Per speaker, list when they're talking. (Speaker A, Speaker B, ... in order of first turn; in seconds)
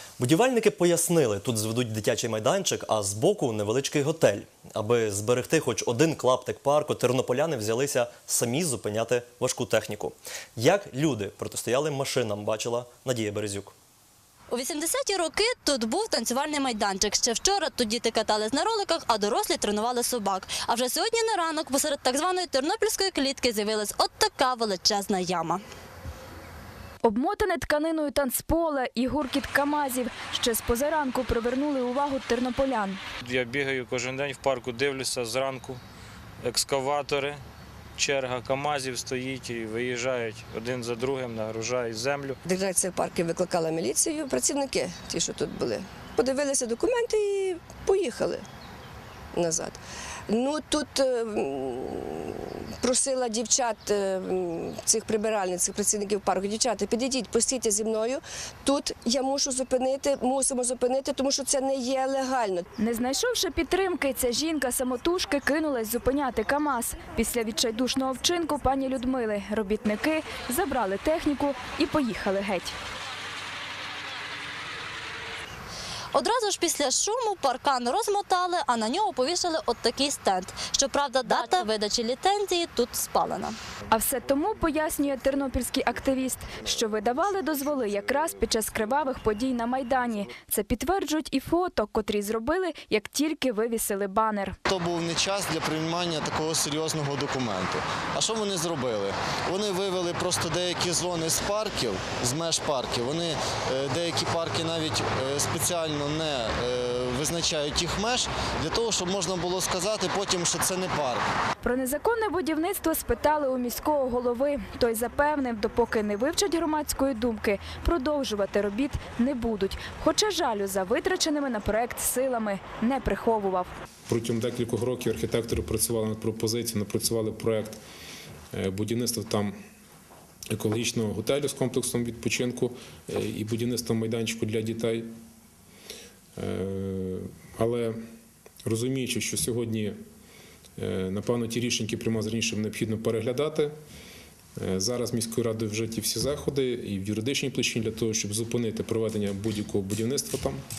Speaker A: 0.2-13.7
Speaker B: 14.5-25.6, 76.1-83.6
Speaker C: 27.0-33.0, 62.8-72.7, 83.9-94.6, 111.6-123.7
Speaker D: 33.2-35.8, 36.4-37.4, 38.0-42.4
Speaker E: 42.5-48.5, 49.3-62.7
Speaker F: 94.7-111.2
Speaker G: 124.1-127.8, 128.5-129.6, 130.5-135.1, 136.4-138.0, 138.7-140.0, 140.8-143.7, 144.6-150.6